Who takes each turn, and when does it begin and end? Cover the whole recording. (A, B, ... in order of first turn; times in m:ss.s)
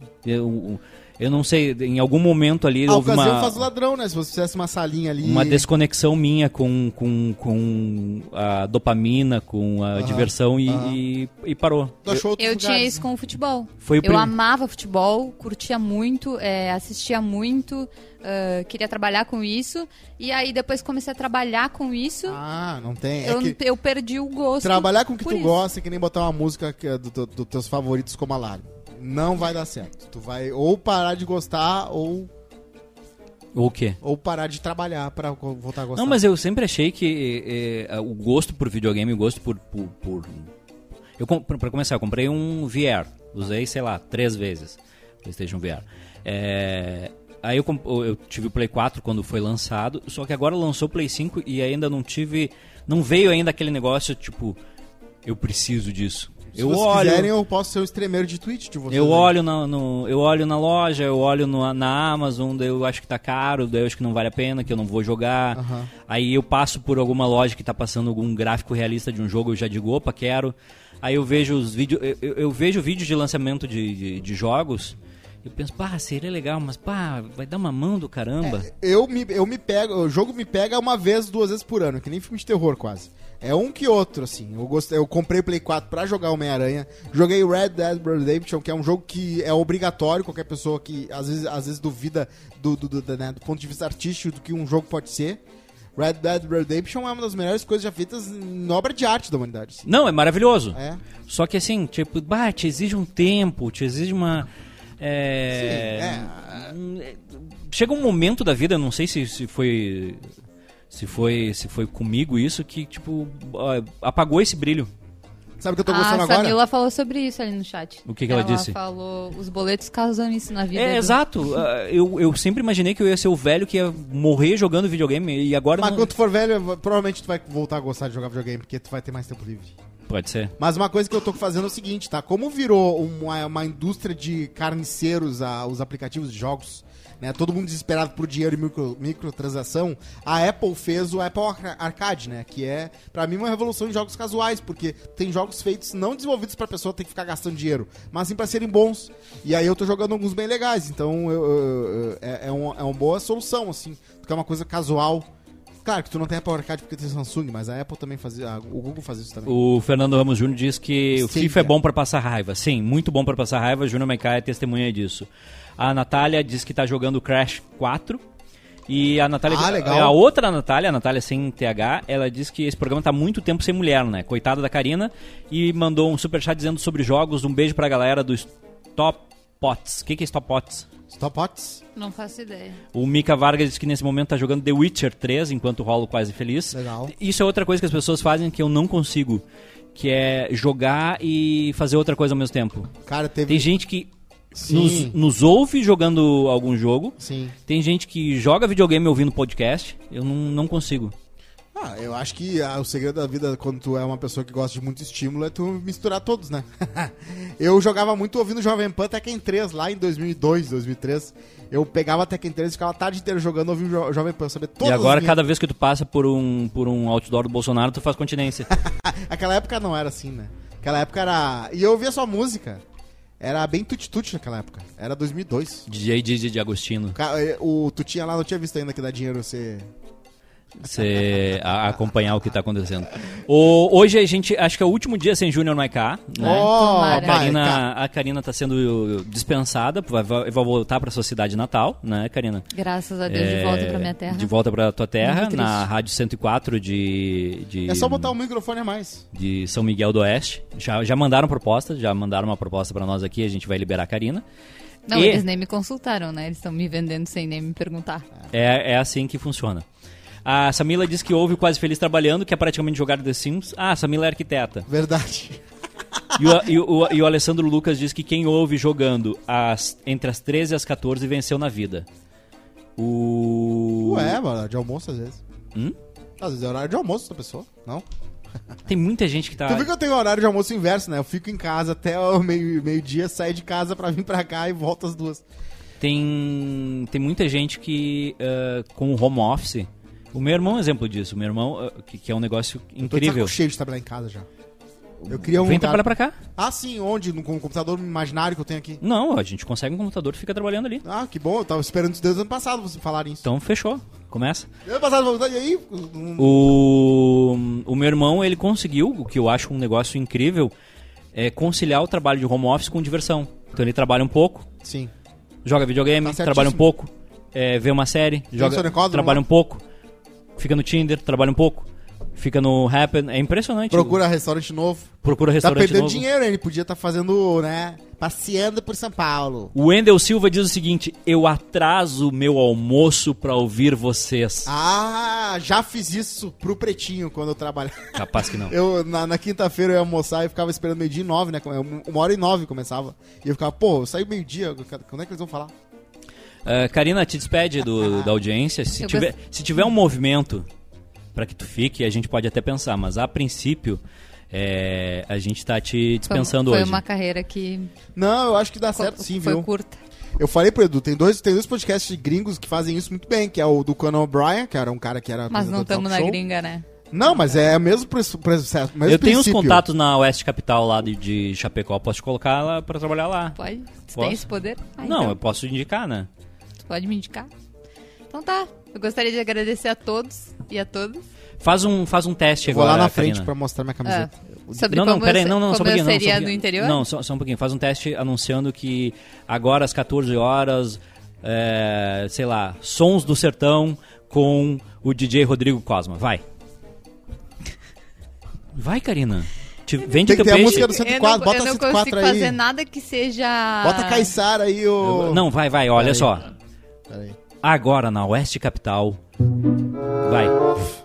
0:00.2-0:03.7 A
0:02.9-0:05.7 B
0:05.2-0:12.2 A
0:10.0-0:11.0 B
0:12.0-0:13.0 B
0:12.4-0:22.4 C
0:13.8-0:14.3 A
0:22.3-0:23.6 B
0:23.2-0:25.6 C
0:24.6-0:32.3 B
0:33.5-0:34.0 A
0:34.0-0:36.2 B
0:35.9-0:40.5 A
0:41.2-0:54.6 A
0:55.2-0:57.3 A
0:56.5-0:59.3 B
0:58.9-1:18.7 A
1:05.5-1:05.9 B
1:18.4-1:35.4 B
1:36.0-1:39.9 B
1:39.8-1:44.5 A
1:40.7-1:41.0 B
1:45.0-1:50.3 A
1:45.5-1:46.7 B
1:50.9-1:54.9 A
1:55.6-1:56.6 B
1:55.8-2:01.2 C
1:58.1-1:58.7 A
2:00.7-2:06.1 A
2:05.8-2:09.7 B
2:10.1-2:10.5 A
2:10.6-2:35.3 B
2:35.8-2:39.5 B
2:39.4-2:48.2 A
2:41.1-2:41.7 B
2:48.9-3:00.9 A
2:49.5-2:50.2 B
3:01.1-3:01.8 B
3:02.0-3:02.8 C
3:02.9-3:09.4 A
3:06.7-3:07.1 B
3:09.9-3:12.9 A
3:13.0-3:13.7 B
3:13.5-3:14.1 A
3:14.6-3:15.2 B
3:14.6-3:21.1 A
3:17.2-3:17.5 B
3:21.7-3:35.4 B
3:34.8-3:38.7 A
3:38.7-3:42.8 B
3:43.4-3:45.8 B
3:45.9-3:47.2 A
3:47.1-3:49.9 B
3:50.8-4:02.7 A
3:56.4-3:57.8 B
3:56.4-3:57.5 C
4:02.7-4:04.5 C
4:03.3-4:08.3 A
4:05.2-4:05.8 C
4:07.9-4:09.2 B
4:09.3-4:14.4 A
4:15.1-4:18.2 C
4:15.1-4:15.4 A
4:18.5-4:19.8 A
4:20.4-4:24.9 A
4:24.9-4:25.6 B
4:26.3-4:26.6 B
4:26.3-4:32.1 A
4:33.0-4:34.4 A
4:34.0-4:35.4 B
4:36.4-4:38.0 B
4:38.9-4:39.9 A
4:39.6-4:45.4 B
4:46.0-4:53.6 A
4:53.0-4:54.5 B
4:55.2-4:56.4 A
4:55.3-4:59.0 B
4:59.0-5:01.0 A
5:01.0-5:03.4 B
5:03.4-5:04.7 A
5:04.8-5:06.7 B
5:06.4-5:10.7 A
5:11.3-5:14.7 A
5:14.8-5:15.1 B
5:15.6-5:19.8 A
5:16.2-5:16.8 B
5:18.6-5:19.4 B
5:20.6-5:24.2 A
5:23.9-5:29.7 B
5:25.2-5:26.2 A
5:29.7-5:34.7 A
5:34.6-5:45.7 B
5:38.1-5:38.7 A
5:46.6-5:50.7 A
5:49.0-5:49.3 C
5:51.3-5:57.0 A
5:56.3-5:57.9 C
5:58.2-5:59.7 B
5:58.9-6:00.0 C
6:00.4-6:06.4 B
6:05.5-6:06.8 C
6:07.1-6:09.8 B
6:09.0-6:13.6 A
6:13.6-6:15.4 C
6:14.1-6:14.4 A
6:15.0-6:16.3 A
6:16.8-6:17.5 C
6:18.3-6:21.2 C
6:21.6-6:23.5 A
6:22.6-6:24.3 B
6:24.0-6:27.0 C
6:24.7-6:36.4 A
6:38.7-6:40.9 A
6:40.2-6:42.6 B
6:40.6-6:44.3 C
6:43.8-6:46.3 B
6:45.0-6:46.5 A
6:47.1-6:47.4 B
6:47.6-6:49.2 A
6:50.2-6:50.9 A